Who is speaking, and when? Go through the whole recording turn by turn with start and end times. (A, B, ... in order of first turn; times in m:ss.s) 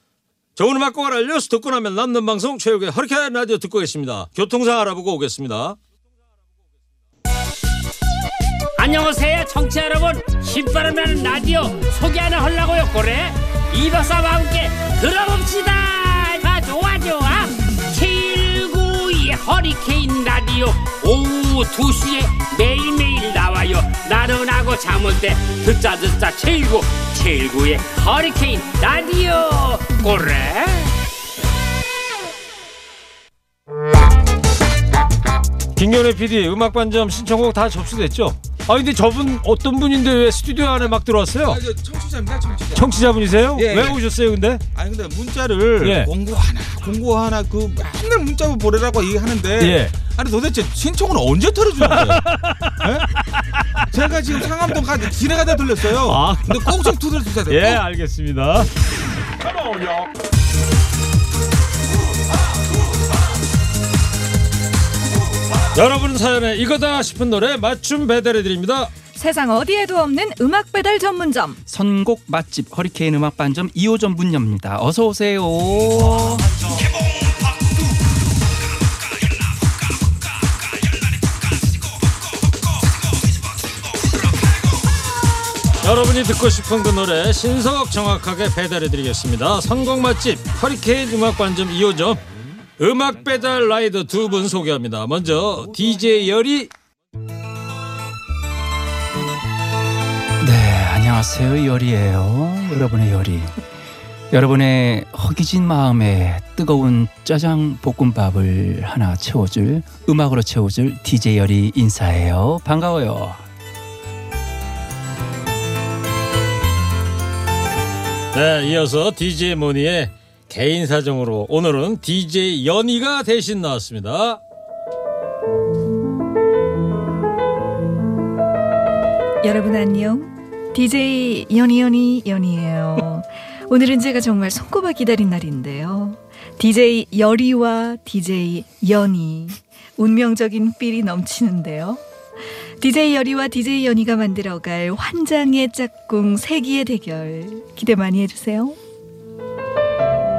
0:00.6-0:05.8 A
0:08.8-0:30.9 B
0:35.8-0:41.6 A
0:41.4-0:44.0 C
0:42.7-0:44.6 A
0:44.7-0:52.2 C
0:45.8-0:46.1 A
0:49.6-0:49.9 A
0:51.8-0:52.9 A
0:52.8-0:53.1 C
0:53.9-0:57.8 C
0:55.8-0:58.7 A
1:05.7-1:08.9 A
1:09.1-1:11.6 D
1:11.7-1:16.5 E
1:25.8-1:32.2 A
1:32.8-1:36.7 A
1:40.4-1:43.6 E
1:44.3-1:53.4 E
1:58.3-2:04.4 A
2:09.4-2:22.0 D
2:22.8-2:28.8 D